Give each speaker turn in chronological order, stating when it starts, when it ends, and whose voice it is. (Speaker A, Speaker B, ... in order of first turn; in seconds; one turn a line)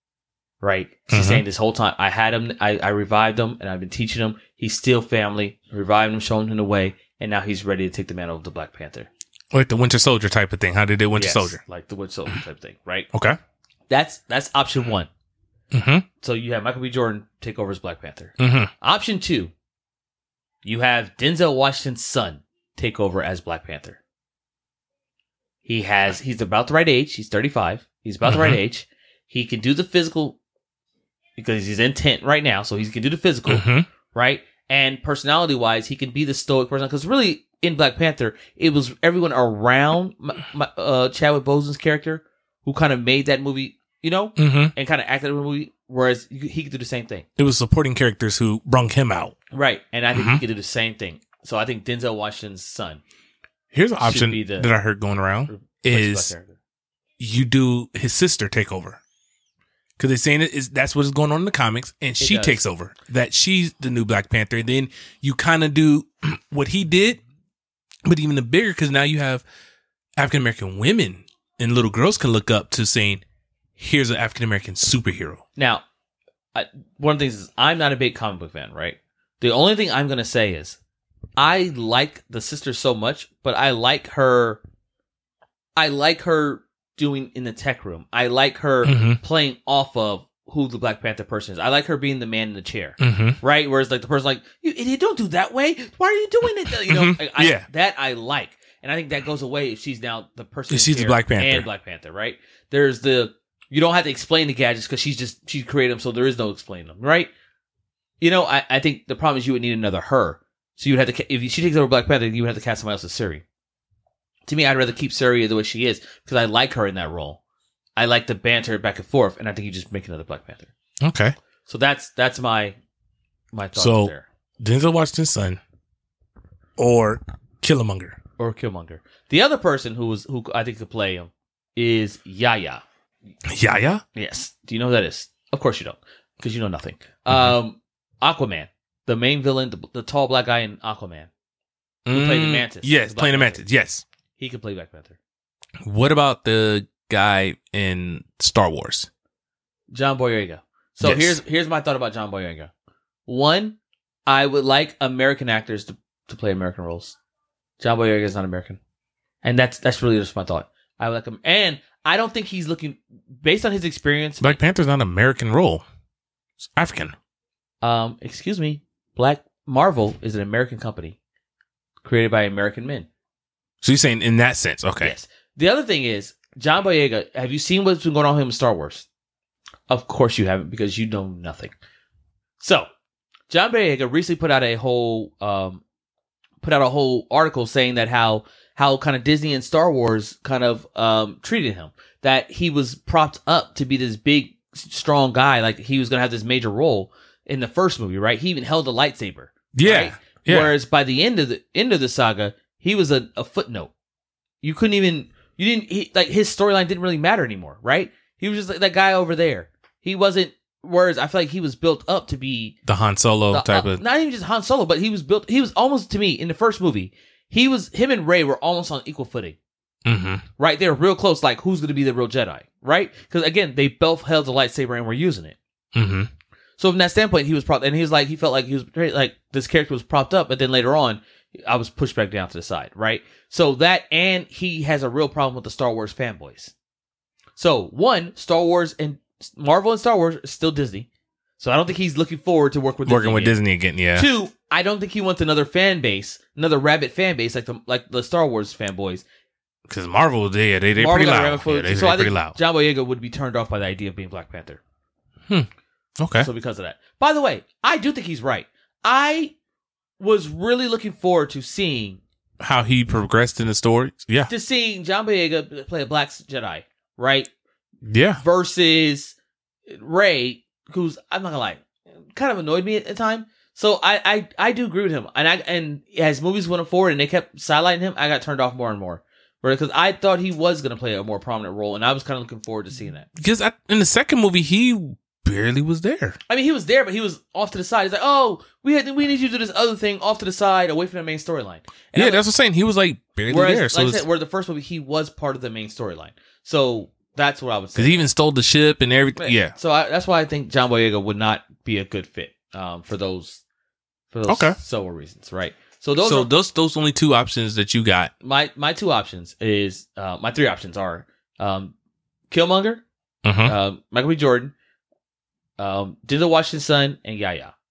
Speaker A: 0.6-9.1
Speaker B: 1.1-1.4
Speaker B: 9.5-11.6
Speaker A: 11.2-13.1
Speaker B: 13.1-13.4
Speaker A: 13.9-15.1
Speaker B: 15.7-16.0
Speaker A: 16.2-19.5
Speaker B: 18.4-18.7
Speaker A: 20.6-24.0
Speaker A: 25.6-30.4
Speaker B: 28.2-28.6
Speaker A: 31.4-47.2
Speaker B: 33.5-33.9
Speaker B: 44.4-44.7
Speaker B: 47.4-49.4
Speaker A: 49.5-53.0
Speaker B: 50.1-50.4
Speaker B: 53.7-56.3
Speaker A: 54.0-54.7
Speaker A: 55.5-56.6
Speaker B: 57.2-59.0
Speaker B: 60.0-67.2
Speaker A: 62.2-62.6
Speaker B: 68.0-69.4
Speaker B: 70.2-73.2
Speaker B: 73.8-75.4
Speaker A: 75.6-75.8
Speaker A: 76.5-80.8
Speaker A: 81.4-84.6
Speaker A: 85.8-107.3
Speaker B: 88.8-89.2
Speaker B: 93.0-93.4
Speaker B: 96.7-97.7
Speaker B: 100.7-101.7
Speaker A: 108.2-113.4
Speaker A: 114.5-117.4
Speaker A: 118.0-120.7
Speaker B: 121.0-121.3
Speaker A: 121.7-122.8
Speaker A: 123.5-124.2
Speaker B: 123.8-125.6
Speaker B: 126.8-128.2
Speaker A: 128.4-132.8
Speaker B: 133.5-134.0
Speaker A: 134.1-141.3
Speaker B: 137.3-137.6
Speaker B: 142.1-144.0
Speaker A: 142.1-143.6
Speaker A: 144.4-145.2
Speaker B: 145.8-149.1
Speaker A: 149.9-152.7
Speaker B: 151.0-151.4
Speaker A: 153.3-157.2
Speaker A: 157.8-158.8
Speaker A: 159.4-164.6
Speaker B: 164.4-165.8
Speaker B: 166.7-167.2
Speaker A: 167.8-171.2
Speaker A: 172.0-173.1
Speaker B: 173.8-175.1
Speaker A: 175.0-179.1
Speaker A: 179.9-181.7
Speaker A: 182.6-182.9
Speaker A: 183.5-185.8
Speaker A: 186.6-203.9
Speaker B: 199.7-200.7
Speaker A: 204.6-212.8
Speaker B: 212.9-214.0
Speaker A: 213.5-219.6
Speaker B: 220.0-220.4
Speaker A: 220.6-225.6
Speaker B: 225.9-226.3
Speaker A: 226.8-236.7
Speaker A: 237.6-241.1
Speaker A: 241.6-243.6
Speaker B: 243.1-244.3
Speaker A: 244.1-249.2
Speaker B: 249.9-252.6
Speaker A: 251.0-254.8
Speaker B: 256.2-256.5
Speaker A: 256.4-259.5
Speaker A: 260.2-262.2
Speaker B: 262.6-264.5
Speaker A: 264.5-267.5
Speaker B: 268.0-268.4
Speaker A: 268.4-269.4
Speaker A: 269.9-283.3
Speaker B: 283.4-286.4
Speaker A: 286.5-292.4
Speaker B: 292.1-294.2
Speaker A: 293.5-298.2
Speaker B: 297.9-299.7
Speaker A: 299.4-303.6
Speaker A: 304.3-306.5
Speaker B: 304.5-304.8
Speaker B: 306.2-308.3
Speaker A: 308.4-311.9
Speaker A: 312.5-313.0
Speaker B: 313.4-313.7
Speaker A: 313.6-314.7
Speaker A: 315.8-317.7